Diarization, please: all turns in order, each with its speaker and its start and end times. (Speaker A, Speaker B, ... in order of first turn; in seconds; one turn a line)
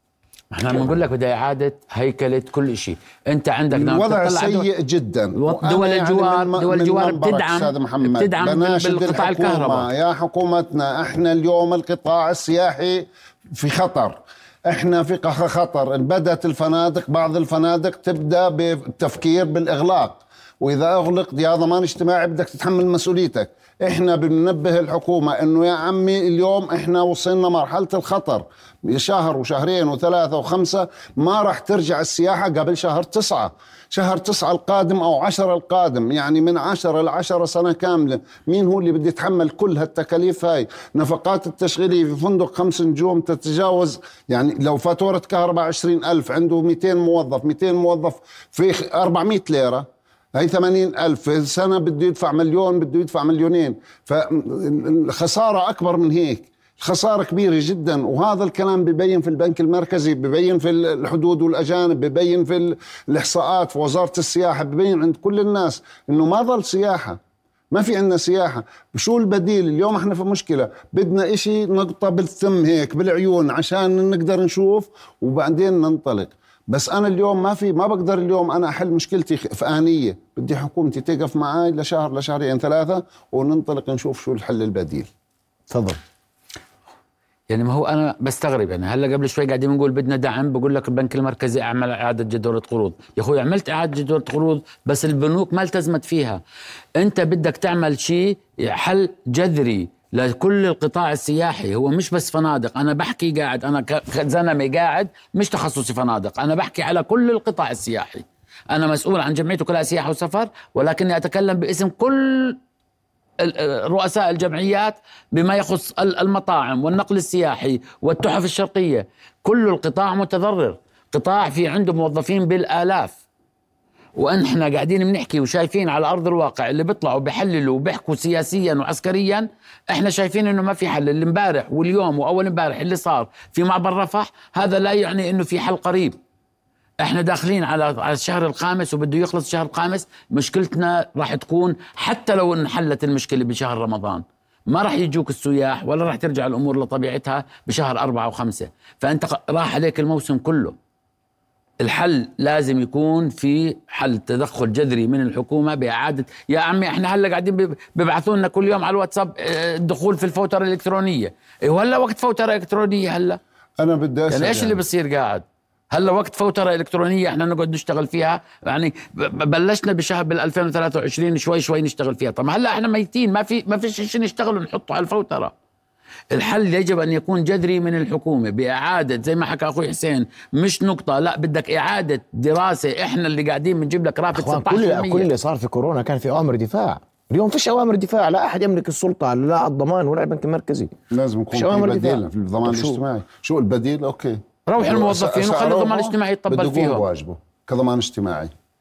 Speaker A: 0.5-4.7
Speaker B: 3.7-67.2
Speaker A: 5.4-9.9
Speaker B: 67.7-85.1
Speaker C: 85.7-86.0
Speaker A: 87.5-96.4
Speaker A: 97.0-112.6
Speaker A: 113.4-123.2
Speaker A: 124.2-136.2
Speaker A: 137.0-150.7
Speaker A: 151.8-163.4
Speaker B: 163.8-164.8
Speaker A: 164.3-175.5
Speaker A: 176.3-185.3
Speaker C: 184.3-190.9
Speaker B: 191.1-198.5
Speaker C: 191.5-193.0
Speaker A: 194.7-197.0